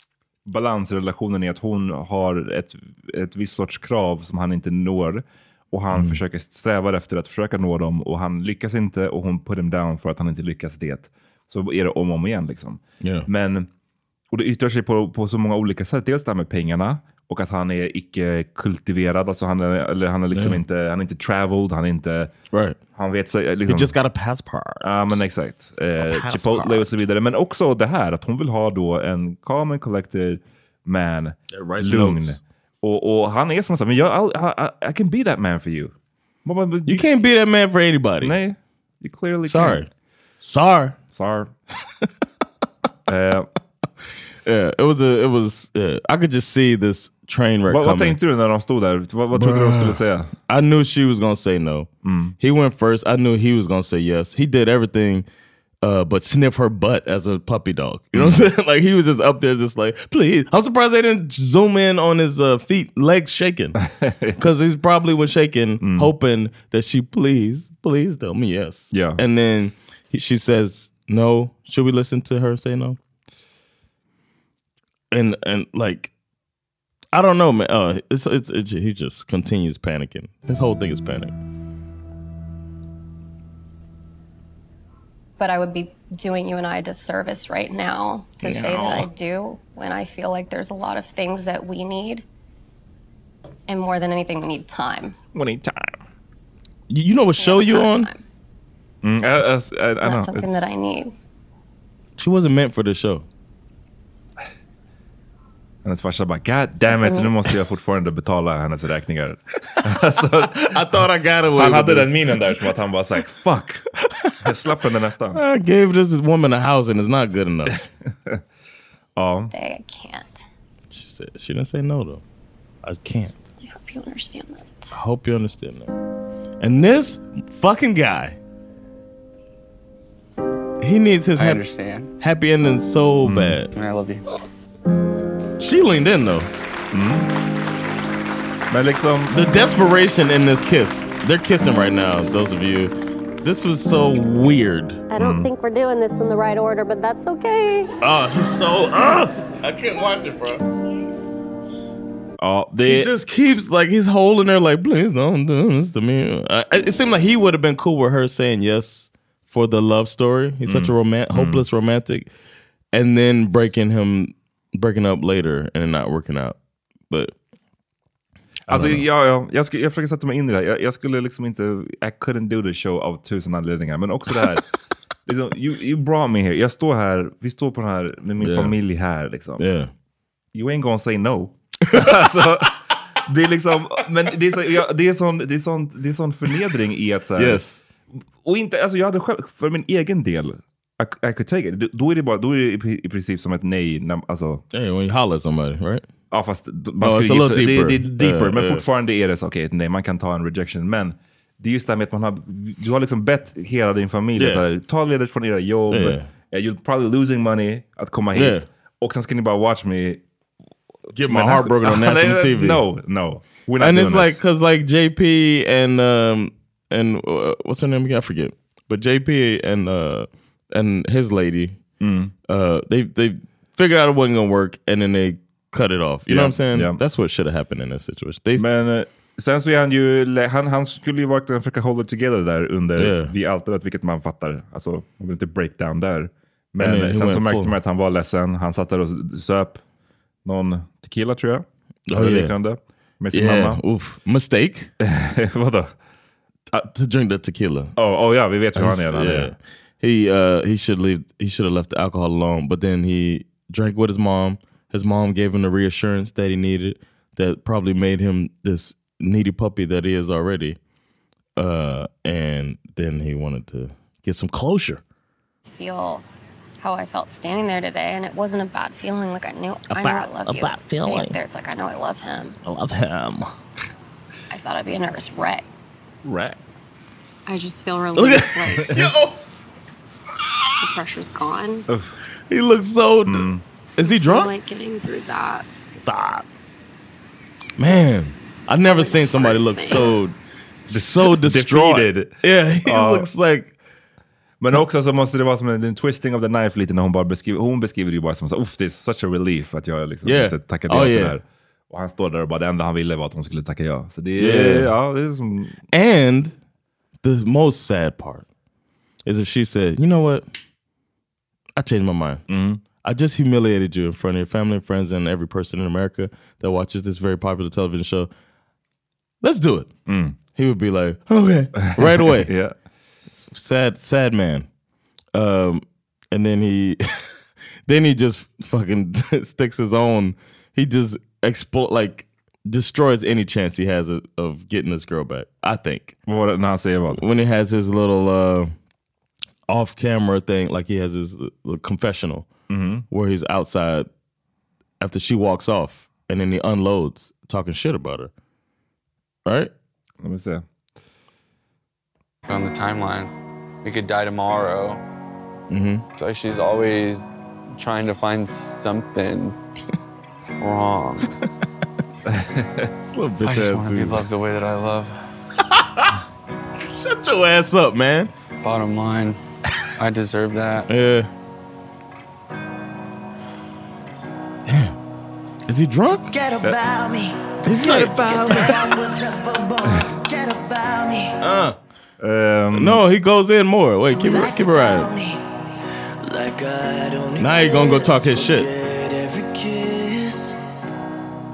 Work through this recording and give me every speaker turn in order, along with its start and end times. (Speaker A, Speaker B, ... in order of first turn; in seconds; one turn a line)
Speaker A: 0.5-13.7
Speaker B: 5.9-6.2
Speaker B: 13.0-13.3
Speaker A: 14.3-22.3
Speaker B: 20.3-20.6
Speaker B: 22.5-22.8
Speaker A: 22.9-23.9
Speaker B: 23.7-25.2
Speaker A: 24.8-35.9
Speaker B: 26.0-26.9
Speaker B: 31.5-32.4
Speaker A: 36.4-37.0
Speaker B: 36.9-38.4
Speaker A: 38.2-39.8
Speaker B: 39.4-39.9
Speaker B: 40.4-41.0
Speaker A: 41.1-41.5
Speaker A: 43.1-43.5
Speaker B: 44.4-48.2
Speaker A: 47.7-50.3
Speaker B: 49.3-51.9
Speaker A: 52.0-52.4
Speaker B: 52.4-55.2
Speaker B: 55.8-63.8
Speaker A: 58.1-58.5
Speaker A: 63.8-64.4
Speaker B: 64.4-73.0
Speaker A: 65.8-66.1
Speaker A: 68.9-69.2
Speaker B: 75.1-76.1
Speaker B: 77.1-81.3
Speaker C: 85.4-92.2
Speaker B: 88.4-89.1
Speaker C: 93.7-95.2
Speaker A: 95.3-96.0
Speaker B: 96.9-98.1
Speaker C: 97.4-98.2
Speaker A: 99.0-100.6
Speaker C: 100.0-101.1
Speaker B: 102.2-103.2
Speaker A: 105.8-111.0
Speaker C: 106.8-107.3
Speaker B: 110.6-112.4
Speaker A: 111.5-113.9
Speaker A: 114.4-115.4
Speaker B: 115.3-117.8
Speaker A: 119.2-119.5
Speaker C: 119.5-120.4
Speaker B: 120.9-122.2
Speaker B: 122.8-123.4
Speaker C: 123.6-124.9
Speaker B: 124.9-125.9
Speaker B: 126.6-128.4
Speaker B: 130.8-131.7
Speaker D: 131.4-132.1
Speaker B: 132.2-133.7
Speaker A: 133.2-133.6
Speaker D: 133.7-134.2
Speaker B: 135.6-136.5
Speaker A: 136.9-137.3
Speaker A: 138.7-139.4
Speaker B: 139.3-145.0
Speaker C: 145.1-147.9
Speaker A: 145.2-145.5
Speaker B: 148.0-150.6
Speaker A: 152.4-153.1
Speaker B: 152.9-162.3
Speaker A: 160.7-161.6
Speaker B: 162.9-166.6
Speaker B: 168.7-169.1
Speaker A: 168.7-174.7
Speaker A: 175.2-179.6
Speaker B: 178.4-178.8
Speaker B: 179.6-179.9
Speaker A: 180.5-187.6
Speaker B: 181.9-182.6
Speaker B: 187.4-187.8
Speaker A: 188.4-194.6
Speaker B: 194.7-196.1
Speaker A: 196.3-210.2
Speaker B: 197.0-198.8
Speaker B: 204.4-204.6
Speaker B: 205.9-206.3
Speaker B: 208.3-208.6
Speaker B: 211.1-212.8
Speaker A: 211.3-214.4
Speaker B: 213.8-221.8
Speaker A: 222.0-222.3
Speaker B: 222.5-228.7
Speaker A: 226.3-227.0
Speaker A: 228.6-239.8
Speaker B: 233.0-233.3
Speaker B: 236.8-237.8
Speaker A: 240.4-243.8
Speaker B: 242.1-242.6
Speaker B: 243.3-244.9
Speaker A: 245.0-245.9
Speaker B: 246.8-247.9
Speaker A: 247.9-249.5
Speaker B: 248.8-260.8
Speaker B: 261.6-265.0
Speaker C: 265.7-266.2
Speaker C: 266.8-272.6
Speaker B: 269.9-271.4
Speaker B: 272.6-273.5
Speaker C: 274.5-275.6
Speaker A: 276.2-276.6
Speaker C: 277.5-279.1
Speaker B: 278.1-279.4
Speaker C: 280.8-281.9
Speaker A: 281.9-282.2
Speaker B: 282.5-284.5
Speaker A: 283.3-283.6
Speaker C: 284.0-285.7
Speaker B: 286.0-286.4
Speaker B: 287.8-290.4
Speaker C: 288.8-290.1
Speaker B: 290.9-293.8
Speaker A: 290.9-293.3
Speaker A: 294.6-305.8
Speaker B: 300.2-301.4
Speaker B: 304.4-304.9
Speaker B: 305.9-306.5
Speaker B: 307.2-308.4
Speaker B: 309.2-310.4
Speaker B: 311.8-312.4
Speaker A: 312.5-312.8
Speaker B: 313.0-318.3
Speaker B: 319.4-319.9
Speaker A: 320.1-320.4
Speaker B: 320.5-322.5
Speaker A: 321.9-322.7
Speaker B: 323.3-324.7
Speaker B: 325.3-327.0
Speaker B: 327.9-336.2
Speaker A: 336.3-337.2
Speaker B: 337.1-338.7
Speaker B: 339.7-342.5
Speaker A: 342.7-343.0
Speaker B: 343.1-344.1
Speaker B: 345.0-348.3
Speaker B: 349.4-349.7
Speaker A: 350.2-350.6
Speaker D: 352.5-353.3
Speaker D: 353.8-355.0
Speaker B: 355.7-356.0
Speaker D: 356.2-359.6
Speaker D: 360.6-361.3
Speaker A: 362.2-362.9
Speaker B: 363.0-364.3
Speaker D: 363.4-365.2
Speaker B: 365.6-366.1
Speaker B: 366.8-368.3
Speaker D: 368.6-369.4
Speaker D: 370.0-370.9
Speaker B: 370.9-371.3
Speaker B: 374.6-374.9
Speaker B: 375.7-376.3
Speaker E: 376.3-381.4
Speaker B: 377.6-378.8
Speaker A: 377.9-378.8
Speaker B: 381.4-381.8
Speaker A: 382.2-383.0
Speaker B: 382.7-385.1
Speaker E: 384.1-385.4
Speaker E: 386.2-390.6
Speaker B: 387.4-388.7